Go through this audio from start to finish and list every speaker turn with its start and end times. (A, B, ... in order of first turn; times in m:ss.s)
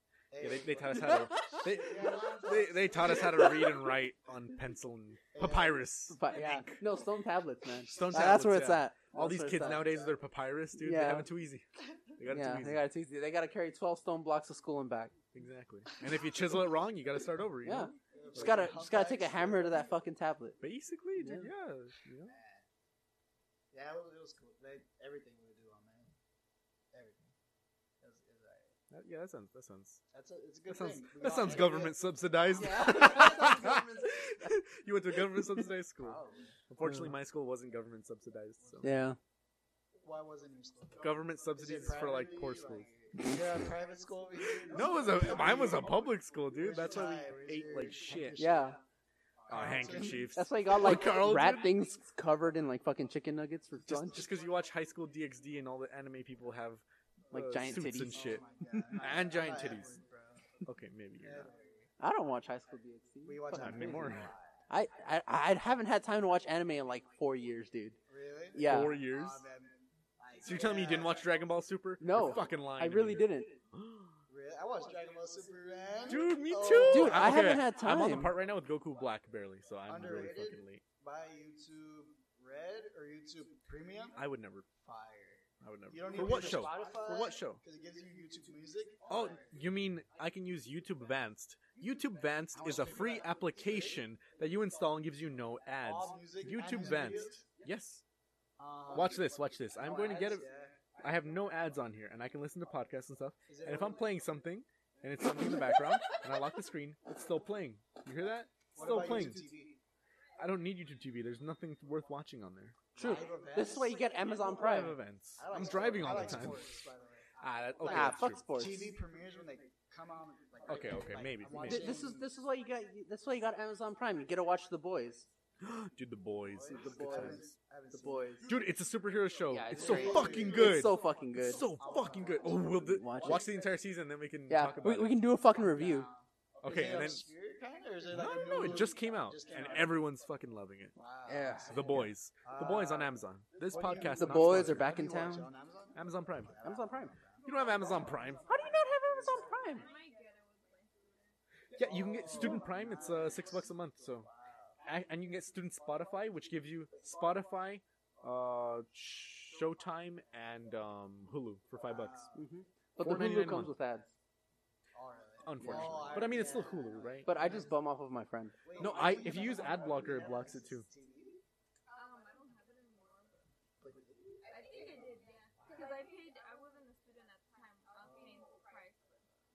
0:00.3-0:03.6 A
0:00.4-0:06.8 B
0:01.0-0:01.7 C
0:03.1-0:03.8 C
0:05.3-0:05.9 A
0:06.1-0:10.0 C
0:07.9-0:12.8 B
0:10.8-0:11.3 C
0:12.3-0:15.1 C
0:15.3-0:18.7 B
0:17.6-0:20.6 C
0:18.1-0:20.0 A
0:20.6-0:22.3 B
0:21.2-0:21.5 C
0:22.3-0:22.6 A
0:23.7-0:26.1 A
0:26.9-0:27.3 A
0:28.0-0:28.7 A
0:28.9-0:30.0 B
0:30.1-0:33.0 A
0:30.7-0:38.9 B
0:32.6-0:34.5 C
0:35.3-0:35.6 C
0:36.0-0:36.6 A
0:36.8-0:37.1 C
0:38.6-0:38.9 A
0:38.8-0:39.2 C
0:40.0-0:48.8 A
0:41.0-0:42.9 B
0:44.6-0:48.4 B
0:48.4-0:48.8 C
0:49.5-0:50.4 A
0:49.5-0:51.7 B
0:49.7-0:54.3 C
0:53.8-0:58.4 B
0:57.3-0:58.9 C
0:58.1-1:00.6 A
0:58.9-1:00.0 B
1:00.6-1:01.5 B
1:01.2-1:01.9 A
1:02.0-1:04.1 C
1:03.2-1:04.6 A
1:03.5-1:04.3 B
1:04.7-1:08.0 C
1:08.1-1:11.3 A
1:08.5-1:09.0 C
1:08.6-1:09.4 B
1:10.4-1:14.2 B
1:12.0-1:13.5 C
1:14.3-1:17.5 A
1:16.1-1:20.8 B
1:16.8-1:18.3 C
1:19.9-1:24.2 A
1:24.2-1:24.7 B
1:24.8-1:29.5 A
1:25.6-1:27.6 B
1:29.1-1:38.0 B
1:32.5-1:34.0 A
1:35.8-1:37.4 A
1:38.6-1:40.8 A
1:38.9-1:40.5 B
1:41.0-1:49.5 B
1:43.5-1:44.1 A
1:48.7-1:49.8 A
1:50.4-1:52.8 B
1:52.9-1:54.0 A
1:53.0-1:55.0 C
1:54.6-1:56.6 B
1:55.4-1:57.3 A
1:57.4-1:58.4 B
1:57.8-2:02.3 A
1:57.8-1:58.9 C
2:00.6-2:02.0 B
2:01.6-2:05.3 C
2:05.6-2:07.4 B
2:06.5-2:08.5 A
2:06.7-2:08.5 C
2:08.4-2:15.2 B
2:09.5-2:11.7 C
2:09.7-2:10.9 A
2:11.8-2:13.4 A
2:12.8-2:13.5 C
2:14.5-2:16.1 C
2:15.5-2:20.0 A
2:16.6-2:17.3 B
2:18.1-2:20.9 B
2:21.0-2:29.8 A
2:21.3-2:22.0 C
2:21.7-2:24.9 B
2:24.0-2:25.5 C
2:25.9-2:26.6 B
2:26.6-2:27.2 C
2:27.4-2:28.6 B
2:28.4-2:29.9 C
2:29.5-2:31.4 D
2:31.7-2:34.3 B
2:31.8-2:34.8 A
2:34.8-2:42.3 B
2:41.8-2:42.4 A
2:42.3-2:44.1 C
2:43.0-2:43.7 B
2:44.9-2:47.8 A
2:45.4-2:47.3 B
2:45.6-2:46.2 C
2:47.2-2:48.6 C
2:48.6-2:51.4 A
2:48.8-2:50.8 B
2:51.9-2:53.4 D
2:53.8-2:55.1 A
2:54.4-2:59.0 D
2:58.0-2:58.4 A